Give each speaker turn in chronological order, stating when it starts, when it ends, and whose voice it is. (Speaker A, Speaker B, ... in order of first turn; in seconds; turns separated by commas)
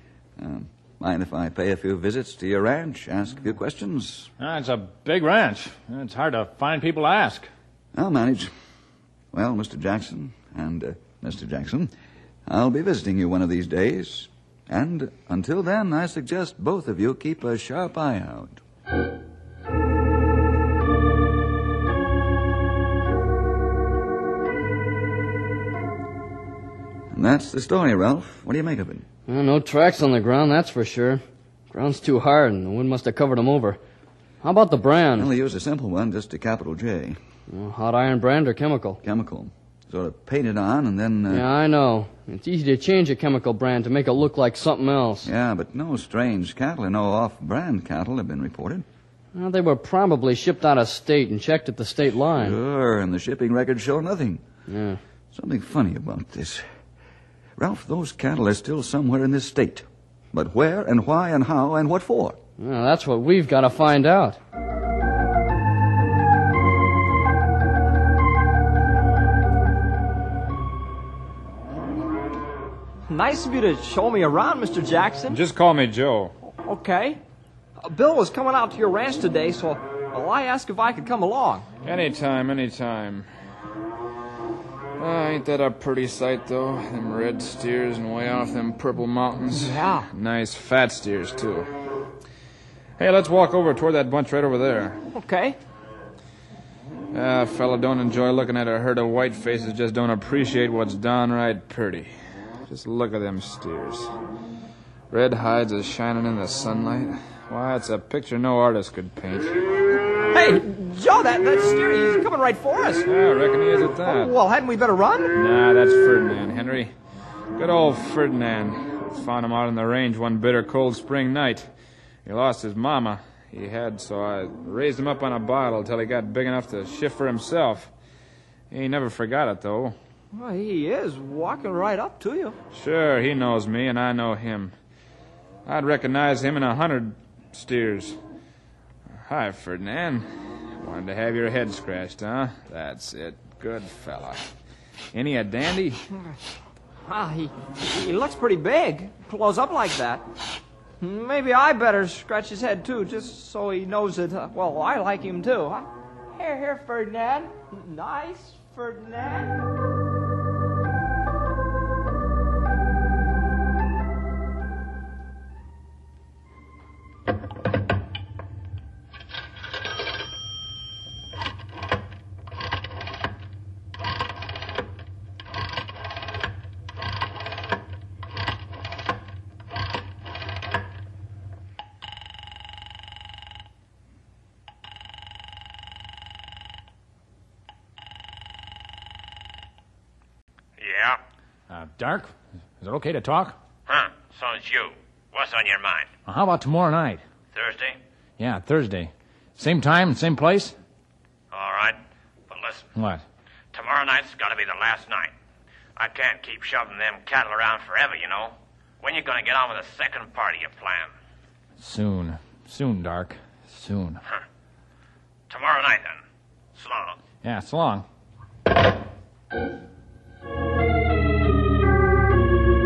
Speaker A: 0.4-4.3, Speaker B: 4.4-7.5, Speaker A: 7.9-8.5, Speaker A: 9.3-11.9, Speaker A: 12.5-18.6, Speaker A: 27.1-29.0, Speaker C: 29.3-33.8, Speaker C: 34.4-35.3, Speaker A: 35.1-37.2, Speaker C: 37.5-39.0, Speaker A: 39.0-41.5, Speaker C: 41.3-45.3, Speaker A: 45.2-48.8, Speaker C: 49.3-52.5, Speaker A: 52.3-54.4, Speaker C: 54.7-55.0, Speaker A: 55.3-56.6, Speaker A: 57.6-62.4, Speaker C: 62.6-64.4, Speaker D: 73.1-75.4, Speaker E: 75.3-76.3, Speaker D: 76.5-77.2, Speaker D: 77.8-81.7, Speaker E: 81.8-83.2, Speaker E: 85.0-91.7, Speaker D: 89.5-90.1, Speaker E: 93.0-95.0, Speaker D: 95.1-95.6, Speaker E: 97.1-102.1, Speaker E: 102.7-104.1, Speaker E: 105.1-109.6, Speaker D: 110.3-113.1, Speaker E: 113.0-114.3, Speaker D: 114.0-115.3, Speaker E: 115.3-116.9, Speaker E: 117.5-121.7, Speaker E: 122.2-127.9, Speaker E: 128.7-129.9, Speaker D: 130.3-132.6, Speaker E: 132.7-134.7, Speaker E: 135.7-138.2, Speaker E: 139.3-140.3, Speaker E: 140.8-144.5, Speaker E: 145.1-146.0, Speaker D: 147.1-150.2, Speaker D: 151.0-159.6, Speaker F: 190.8-191.2, Speaker B: 191.7-193.6, Speaker F: 193.9-196.1, Speaker B: 196.2-197.2, Speaker F: 197.5-198.0, Speaker B: 198.4-200.8, Speaker F: 201.5-202.0, Speaker F: 202.5-202.9, Speaker B: 202.9-203.2, Speaker F: 203.7-205.3, Speaker F: 205.9-211.1, Speaker B: 211.8-214.2, Speaker F: 215.5-216.2, Speaker F: 216.8-217.2, Speaker B: 217.4-218.0